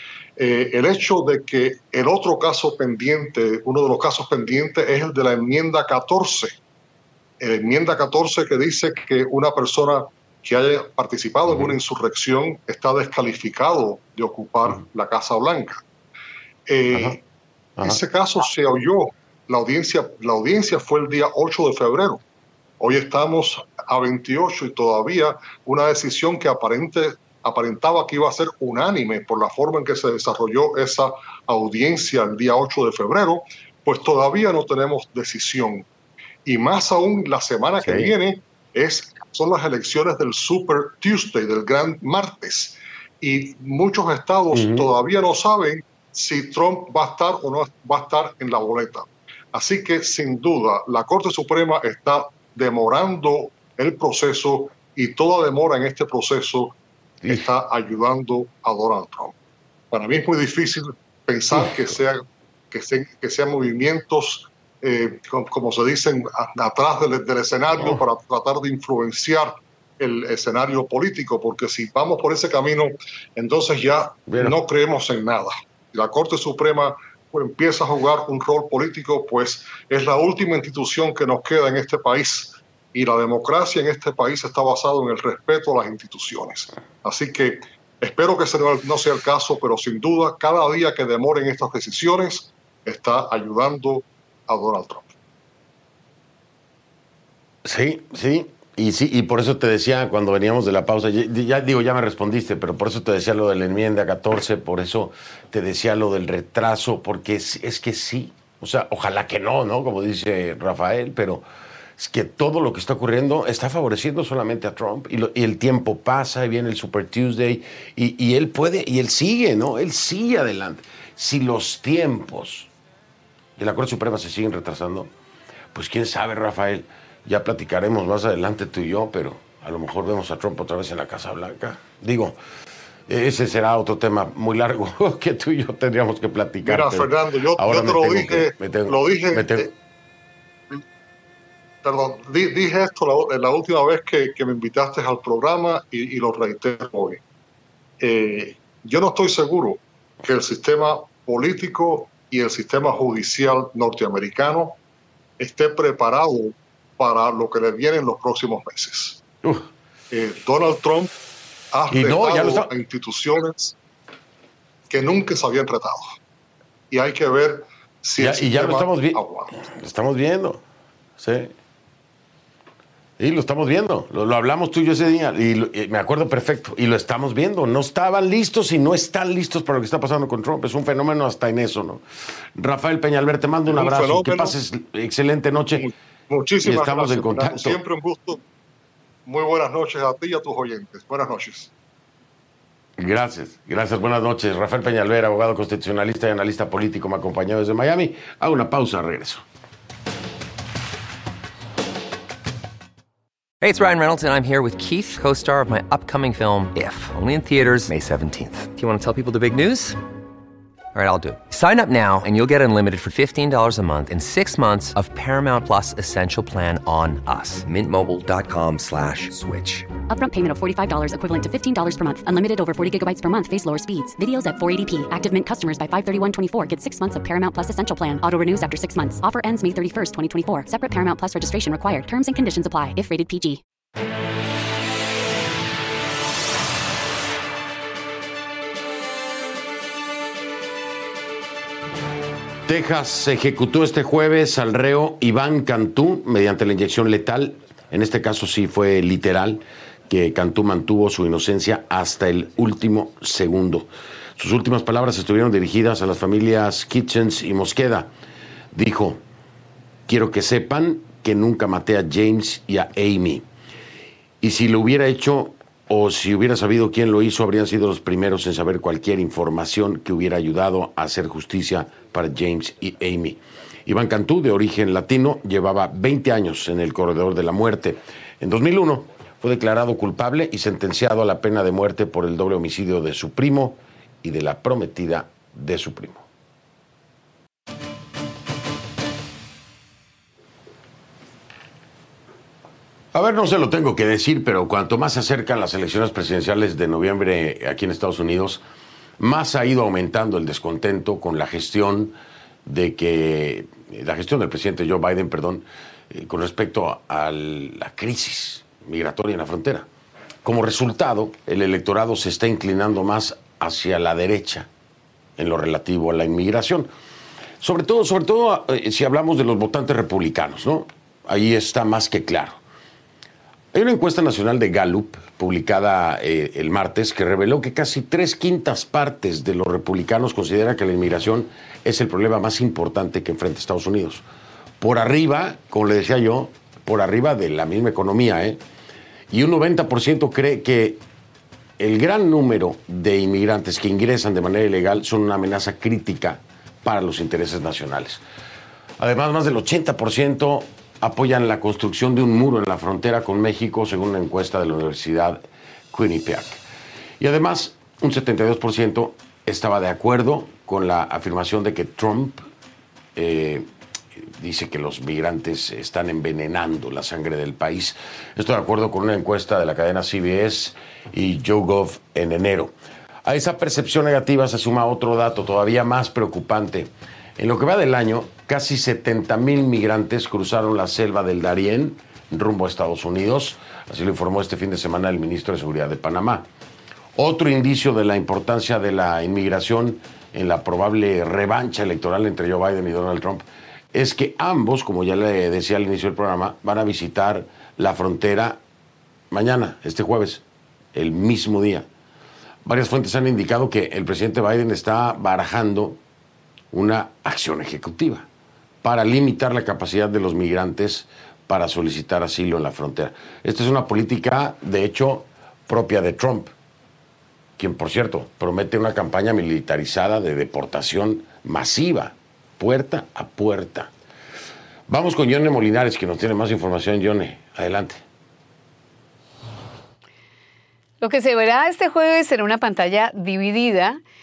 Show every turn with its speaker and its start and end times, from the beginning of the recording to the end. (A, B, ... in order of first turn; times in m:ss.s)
0:00.4-0:06.6 A
0:07.4-0:15.8 A
0:11.5-0:11.8 B
0:16.7-0:17.2 A
0:16.9-0:17.2 B
0:17.8-0:22.2 A
0:22.8-0:35.9 A
0:36.4-0:56.8 A
0:37.8-0:38.1 B
0:44.5-0:44.9 B
0:57.3-0:59.4 A
0:59.9-1:35.1 A
1:01.5-1:02.0 B
1:14.3-1:14.6 B
1:37.6-1:51.4 B
1:52.0-2:02.7 B
2:03.6-2:05.1 B
2:05.7-2:12.4 B
2:13.1-2:19.7 B
2:16.6-2:19.7 A
2:21.8-2:27.2 A
2:28.0-2:34.8 A
2:35.4-2:39.2 A
2:39.4-2:39.7 B
2:40.1-2:41.1 A
2:41.7-2:43.8 A
2:41.9-2:42.7 B
2:44.9-2:46.1 A
2:46.9-2:49.6 A
2:48.2-2:50.6 B
2:51.2-2:51.5 B
2:53.2-3:02.0 B
3:02.6-3:05.9 B
3:03.7-3:04.5 A
3:05.8-3:08.4 A
3:06.6-3:07.8 B
3:09.2-3:11.7 A
3:13.0-3:19.4 B
3:23.6-3:30.0 C
3:30.9-3:39.9 C
3:40.1-3:53.6 D
4:02.7-4:18.1 B
4:18.7-4:19.2 B
4:20.1-4:23.4 B
4:24.4-4:46.2 B
4:53.1-4:58.6 B
4:59.2-5:09.9 B
5:10.4-5:14.7 B
5:15.4-5:16.9 B
5:17.6-5:22.6 B
5:23.7-5:34.2 B
5:34.8-5:38.6 B
5:39.3-5:41.0 B
5:41.8-5:48.2 B
5:49.0-5:56.6 B
5:57.2-6:02.4 B
6:03.1-6:12.7 B
6:13.2-6:26.5 B
6:27.1-6:38.6 B
6:39.3-6:40.4 B
6:40.9-6:41.9 B
6:42.6-6:46.0 B
6:46.7-6:48.3 B
6:48.8-6:56.5 B
6:57.6-7:03.9 B
7:04.9-7:08.0 B
7:11.0-7:14.0 E